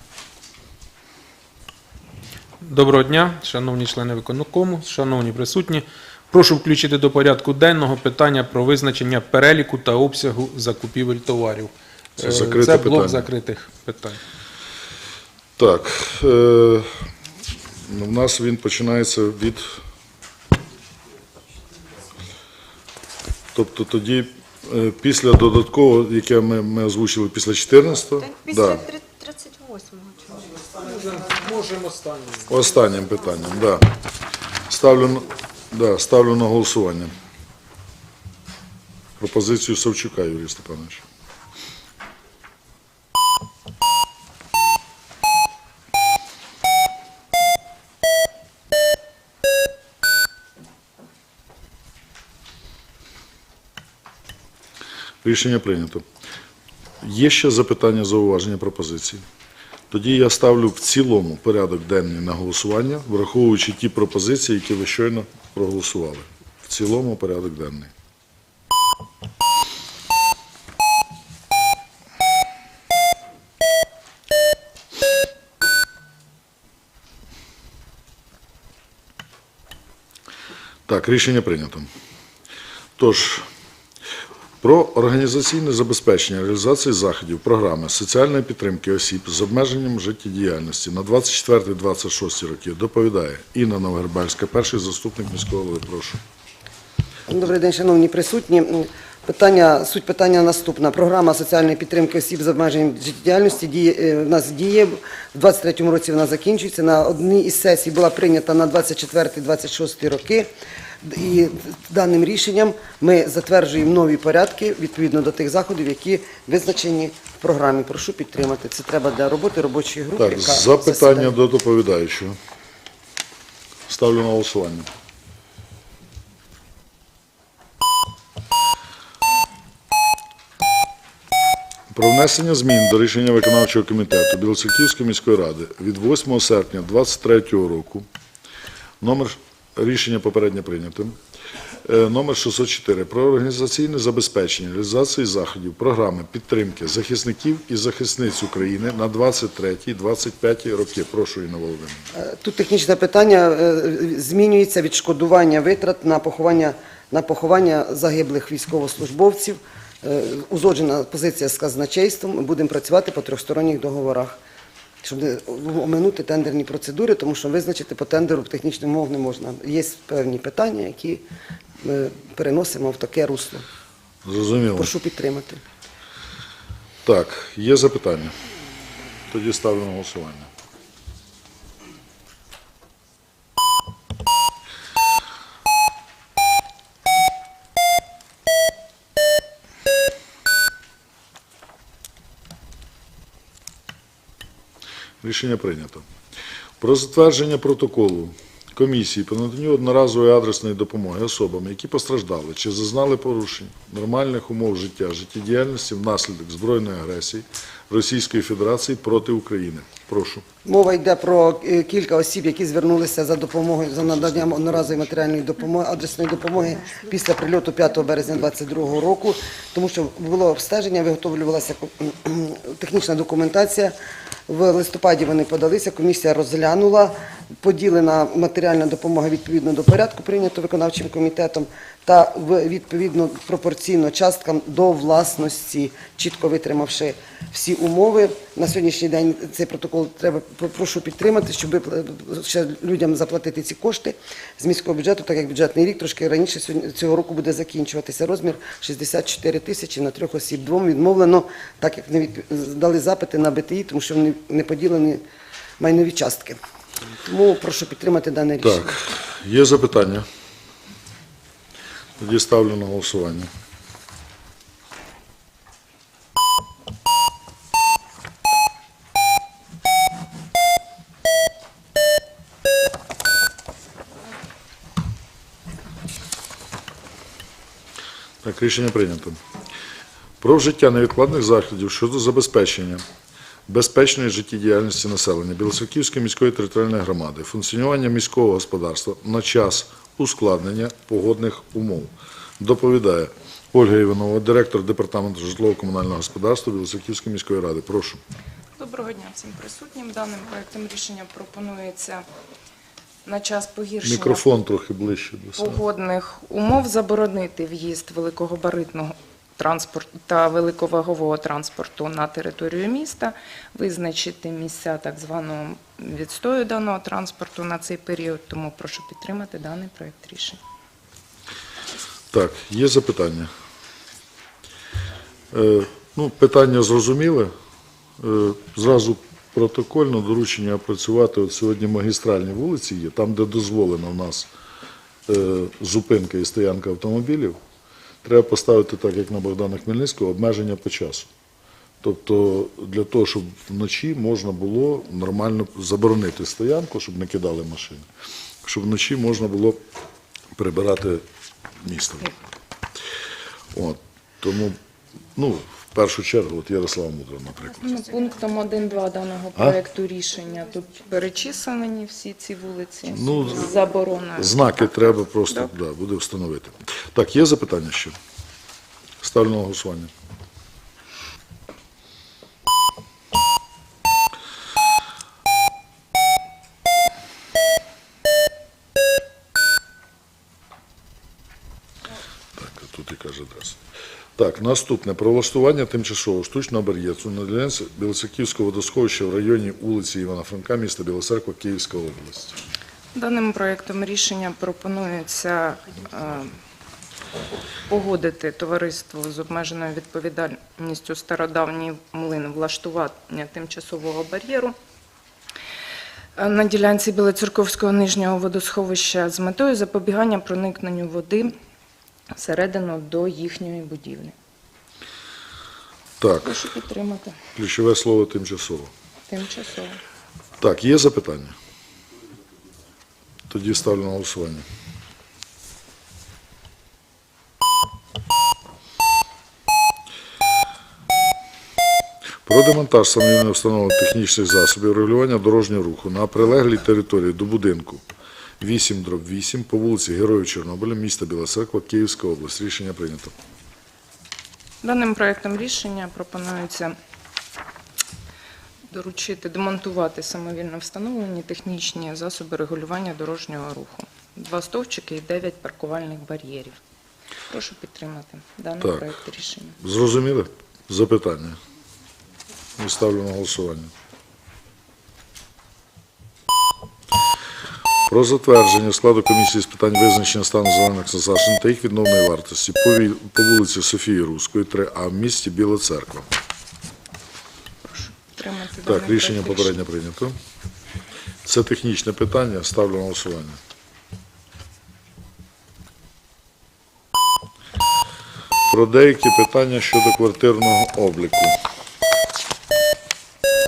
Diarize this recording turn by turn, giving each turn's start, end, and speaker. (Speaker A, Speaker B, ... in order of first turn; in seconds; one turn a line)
Speaker A: 2.6-14.2
Speaker B: 12.2-13.3
Speaker B: 15.6-16.9
Speaker B: 17.8-19.8
Speaker B: 23.5-28.9
Speaker C: 28.1-30.5
Speaker A: 30.8-32.5
Speaker B: 32.5-33.9
Speaker B: 34.7-37.1
Speaker B: 39.2-41.0
Speaker B: 55.2-56.0
Speaker B: 57.0-59.2
Speaker B: 59.9-67.9
Speaker B: 80.9-81.9
Speaker B: 83.0-83.5
Speaker B: 84.6-96.2
Speaker D: 97.3-110.5
Speaker D: 111.0-121.3
Speaker B: 120.2-122.4
Speaker B: 123.9-124.9
Speaker B: 131.9-138.1
Speaker B: 139.0-141.2
Speaker B: 141.8-152.1
Speaker D: 152.1-164.4
Speaker D: 165.0-171.2
Speaker D: 171.8-173.6
Speaker B: 174.2-174.9
Speaker D: 174.8-175.6
Speaker B: 177.0-178.3
Speaker B: 179.3-180.5
Speaker B: 195.2-196.1
Speaker B: 196.8-210.4
Speaker D: 210.7-223.9
Speaker B: 214.0-215.0
Speaker C: 216.8-218.2
Speaker D: 224.5-255.2
Speaker D: 255.8-256.6
Speaker D: 257.2-258.9
Speaker B: 258.6-260.3
Speaker B: 262.2-263.5
Speaker B: 278.4-279.4
Speaker B: 280.4-283.0
Speaker B: 283.7-298.2
Speaker E: 298.8-302.2
Speaker E: 303.2-304.4
Speaker B: 304.0-305.8
Speaker E: 305.6-320.6
Speaker B: 322.3-323.5
Speaker B: 325.5-327.5
Speaker B: 328.2-334.5
Speaker B: 335.3-337.6
Speaker B: 338.2-341.3
Speaker B: 342.0-348.1
Speaker B: 348.6-349.8
Speaker B: 350.5-351.2
Speaker B: 351.8-352.3
Speaker B: 353.7-354.8
Speaker B: 355.3-357.9
Speaker E: 357.8-365.7
Speaker B: 363.1-363.8
Speaker B: 364.4-368.2
Speaker B: 369.2-370.1
Speaker B: 382.5-383.8
Speaker B: 384.4-392.6
Speaker E: 393.1-396.5
Speaker E: 397.9-404.8
Speaker E: 406.4-411.6
Speaker E: 412.3-414.3
Speaker B: 416.2-416.6
Speaker E: 416.4-417.4
Speaker B: 417.5-418.9
Speaker E: 419.3-420.0
Speaker B: 420.6-421.5
Speaker B: 423.5-424.6
Speaker B: 432.4-438.0
Speaker B: 438.6-443.3
Speaker E: 444.8-446.9
Speaker E: 448.9-456.8
Speaker E: 457.5-459.8
Speaker B: 459.8-461.6
Speaker B: 462.8-463.9
Speaker B: 468.1-476.3
Speaker E: 477.9-479.7
Speaker B: 478.8-480.4
Speaker B: 481.4-483.6
Speaker B: 488.7-491.6